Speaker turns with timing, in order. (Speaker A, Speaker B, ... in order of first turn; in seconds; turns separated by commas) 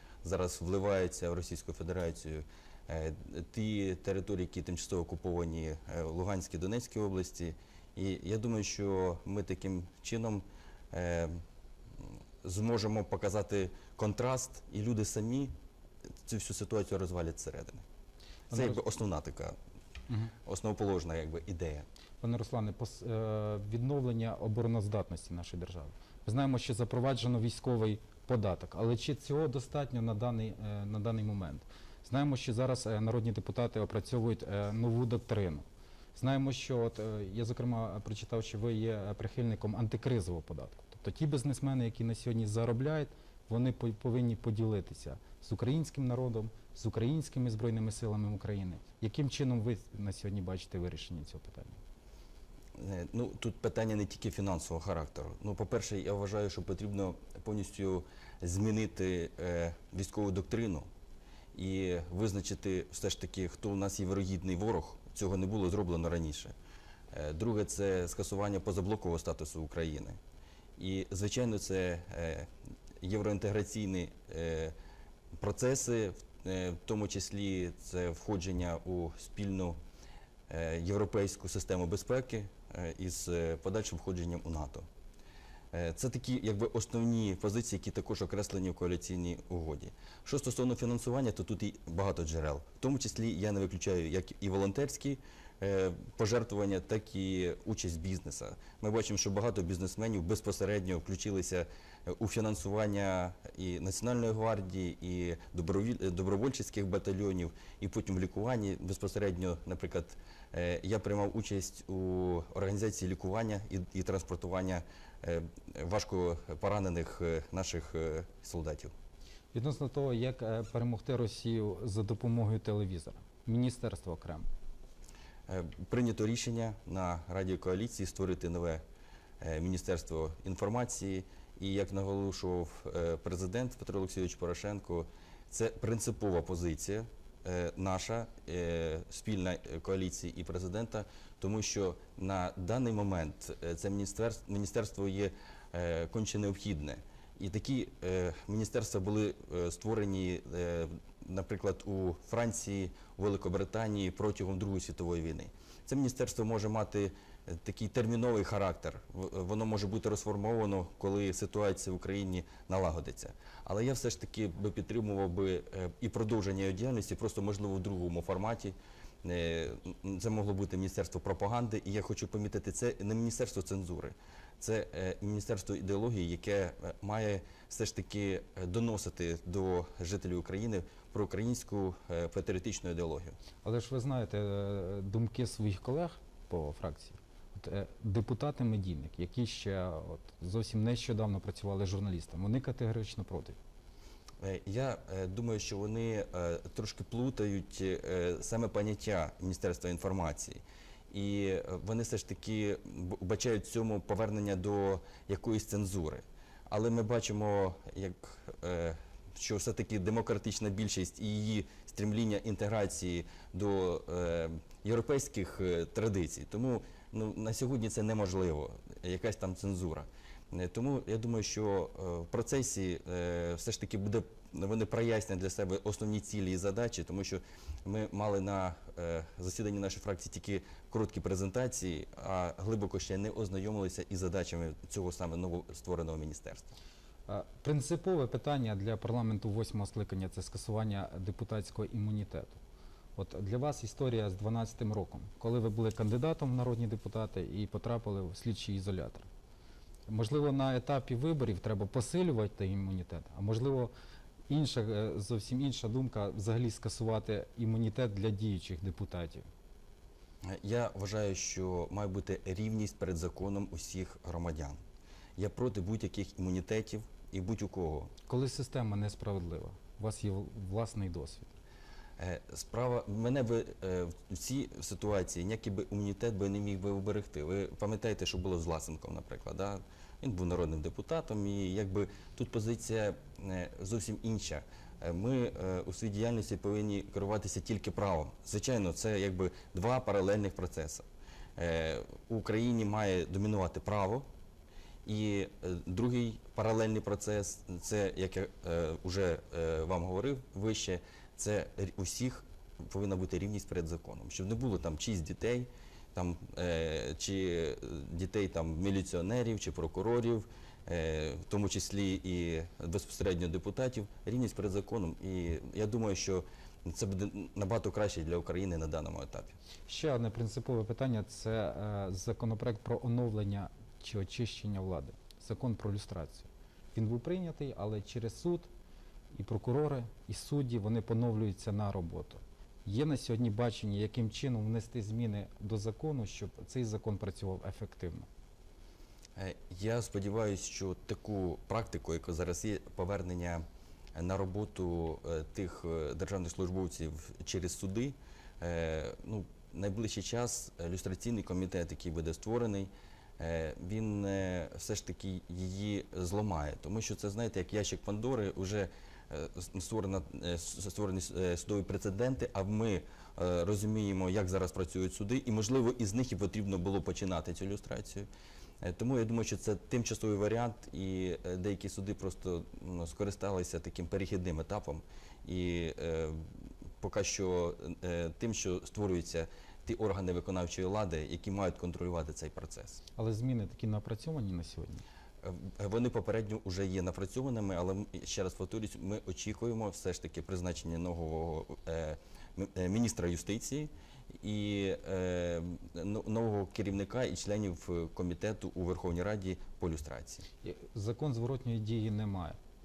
Speaker A: 0.2-11.4, Speaker A: 12.0-15.5, Speaker A: 16.2-17.9, Speaker B: 18.5-18.8, Speaker A: 18.5-19.6, Speaker B: 20.1-20.3, Speaker A: 20.5-21.9, Speaker B: 22.2-51.8, Speaker A: 52.8-60.9, Speaker A: 61.5-66.6, Speaker A: 67.1-70.2, Speaker A: 70.8-72.5, Speaker A: 73.0-74.8, Speaker A: 75.4-79.8, Speaker A: 80.5-84.9, Speaker A: 85.7-118.9, Speaker B: 119.5-124.5, Speaker A: 125.5-128.8, Speaker A: 129.4-183.4, Speaker B: 183.6-193.6, Speaker A: 194.4-236.8, Speaker B: 237.3-242.6, Speaker B: 243.2-249.3, Speaker B: 250.1-253.9, Speaker B: 254.5-259.5, Speaker A: 260.4-264.8, Speaker A: 265.4-268.1, Speaker B: 268.3-271.6, Speaker A: 272.2-291.1, Speaker A: 291.6-294.3, Speaker A: 295.1-319.6, Speaker B: 319.9-328.7, Speaker B: 329.3-338.3, Speaker A: 339.4-368.3, Speaker A: 368.8-376.4, Speaker A: 377.0-383.0, Speaker B: 383.2-385.1, Speaker A: 385.4-400.4, Speaker B: 400.6-402.6